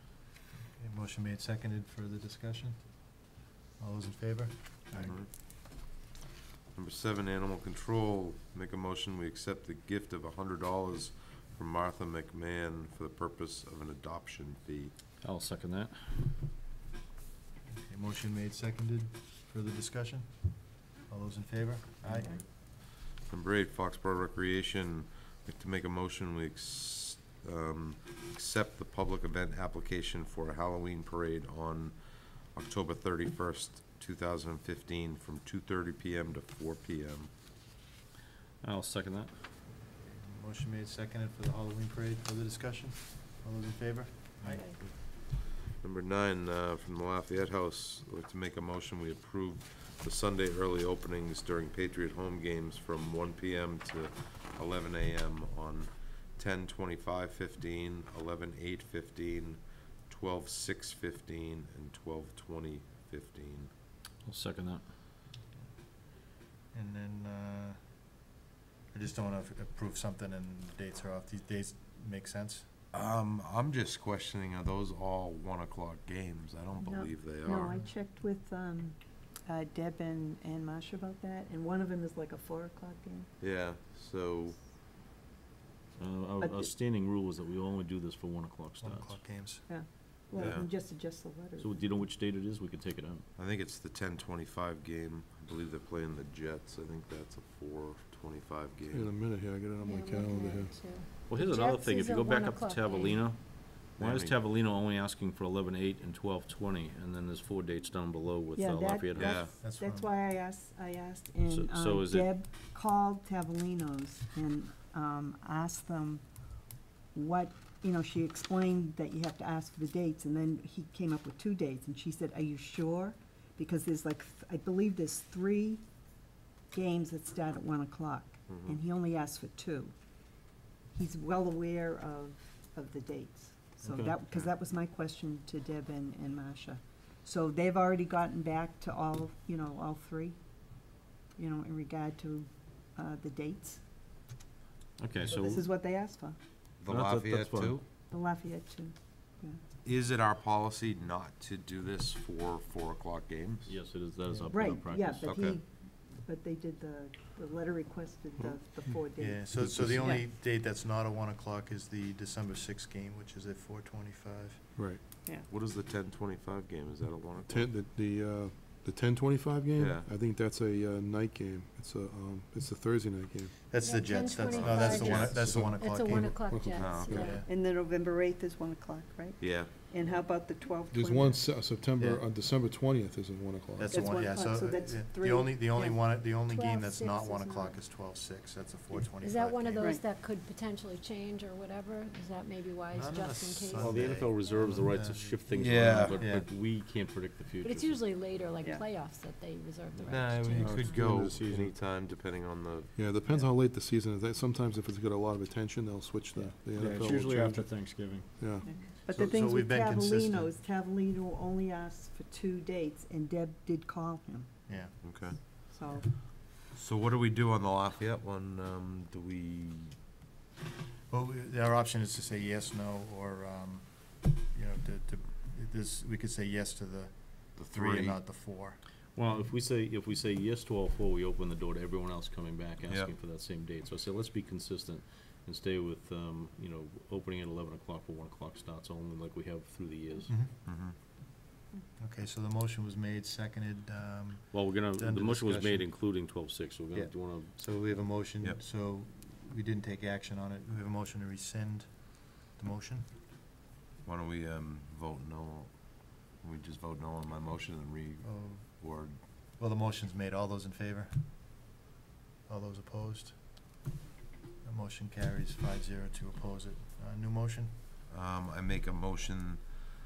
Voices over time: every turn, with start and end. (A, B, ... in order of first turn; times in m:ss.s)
0:00.8-0:02.8 A
0:03.8-0:05.2 A
0:04.9-0:05.3 B
0:06.7-0:14.9 B
0:15.2-0:16.0 C
0:17.7-0:20.4 A
0:21.0-0:22.4 A
0:22.9-0:37.3 B
0:38.6-0:39.3 C
0:40.0-0:44.8 A
0:44.5-0:44.8 D
0:44.8-1:03.7 B
1:04.2-1:04.8 C
1:06.7-1:07.8 A
1:08.9-1:12.7 A
1:12.9-1:17.8 B
1:16.8-1:23.3 E
1:23.4-1:24.6 B
1:26.0-1:29.2 C
1:26.4-1:26.7 E
1:28.8-1:29.7 A
1:29.7-1:31.8 E
1:30.4-1:30.7 B
1:31.6-1:33.2 C
1:33.4-1:39.1 B
1:38.9-1:40.8 F
1:39.8-1:43.3 D
1:41.3-1:49.6 C
1:44.0-1:44.4 B
1:48.6-1:56.2 E
1:49.1-1:49.6 B
1:49.6-1:50.1 A
1:51.5-1:52.3 C
1:57.1-2:05.8 E
2:06.7-2:09.9 E
2:08.4-2:08.8 B
2:10.9-2:23.8 E
2:13.8-2:14.5 A
2:25.0-2:25.7 C
2:25.2-2:26.4 E
2:26.8-2:27.8 B
2:26.8-2:27.8 C
2:28.1-2:29.6 E
2:29.8-2:33.8 B
2:33.6-2:35.3 C
2:34.5-2:40.2 E
2:35.2-2:35.6 B
2:39.2-2:44.6 A
2:39.6-2:40.1 F
2:44.8-2:45.0 F
2:45.4-2:47.7 B
2:47.4-2:53.5 F
2:49.8-2:50.1 B
2:53.7-2:56.5 A
2:53.8-2:57.4 D
2:54.5-2:55.3 B
2:55.3-2:57.4 F
2:56.8-2:57.2 B
2:57.0-2:57.5 A
2:57.4-3:01.4 E
2:59.4-2:59.9 B
3:00.9-3:04.1 F
3:01.9-3:02.3 A
3:03.8-3:10.0 A
3:03.9-3:06.0 E
3:06.3-3:07.8 D
3:09.2-3:14.8 D
3:12.9-3:16.5 A
3:13.8-3:18.0 C
3:15.5-3:16.2 B
3:17.6-3:21.2 D
3:19.9-3:20.2 C
3:20.1-3:23.0 B
3:20.6-3:21.4 F
3:20.9-3:21.7 C
3:22.9-3:27.7 F
3:26.7-3:28.3 C
3:28.4-3:28.6 F
3:28.6-3:34.6 E
3:29.1-3:30.5 A
3:34.7-3:36.0 A
3:35.0-3:35.6 B
3:35.6-3:36.1 E
3:36.6-3:40.0 B
3:41.1-3:48.8 A
3:47.6-3:48.2 B
3:49.1-4:00.3 C
4:00.3-4:00.5 A
4:00.6-4:01.0 B
4:02.0-4:05.9 A
4:04.5-4:07.6 C
4:06.9-4:13.1 A
4:14.0-4:19.2 B
4:18.2-4:21.2 A
4:22.5-4:23.4 A
4:24.6-4:27.7 A
4:28.1-4:29.8 B